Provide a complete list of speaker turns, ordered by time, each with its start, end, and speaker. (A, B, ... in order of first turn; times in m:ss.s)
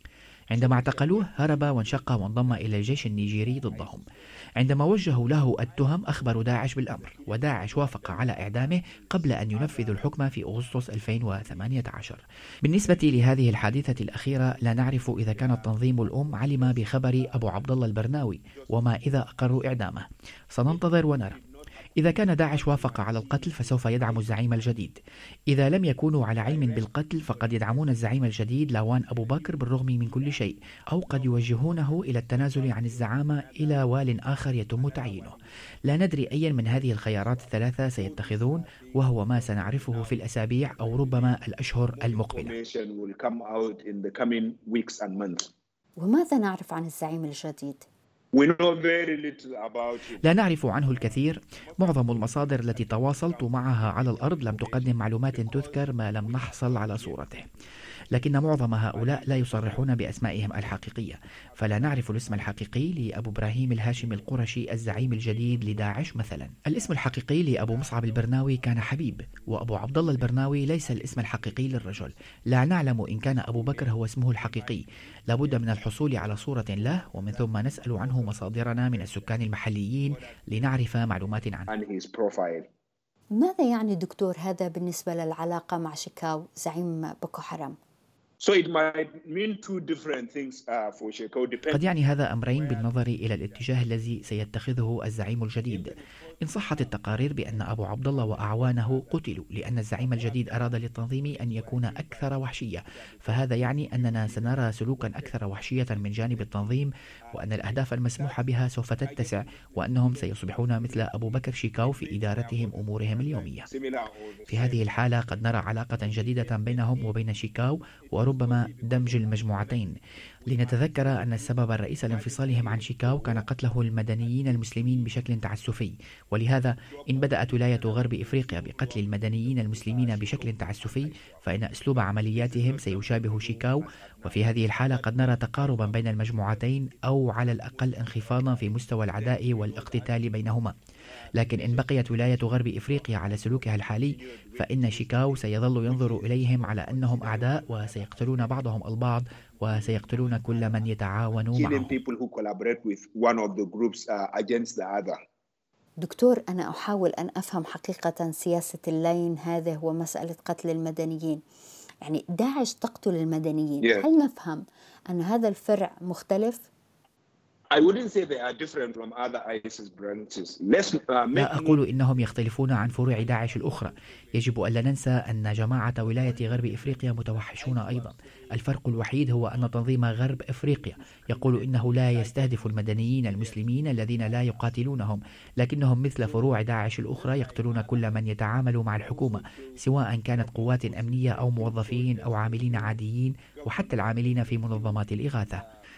0:00.5-0:04.0 A
0:00.5-0:12.2 B
0:04.6-0:21.4 A
0:12.8-0:19.9 B
0:20.6-0:24.8 B
0:22.0-0:25.0 A
0:25.5-0:42.5 A
0:26.1-0:35.4 B
0:35.9-0:45.5 B
0:46.0-0:47.8 C
0:48.3-0:50.2 B
0:50.2-0:57.5 A
0:50.8-0:57.5 B
0:58.1-1:21.7 A
0:58.2-1:02.9 B
1:03.6-1:12.1 B
1:13.1-1:22.7 B
1:23.4-1:27.8 C
1:28.4-1:31.9 B
1:31.7-1:53.7 A
1:32.5-1:33.8 B
1:35.7-1:57.2 B
1:54.5-2:00.0 A
1:58.0-1:59.9 B
2:00.4-2:05.6 B
2:00.5-2:20.7 A
2:06.8-2:20.6 B
2:21.2-2:31.0 B
2:21.3-2:31.9 A
2:31.5-2:35.2 B
2:36.0-2:41.4 C
2:42.0-2:46.6 C
2:47.7-2:52.2 B
2:51.3-3:15.6 A
2:52.8-3:04.9 B
3:06.2-3:15.7 B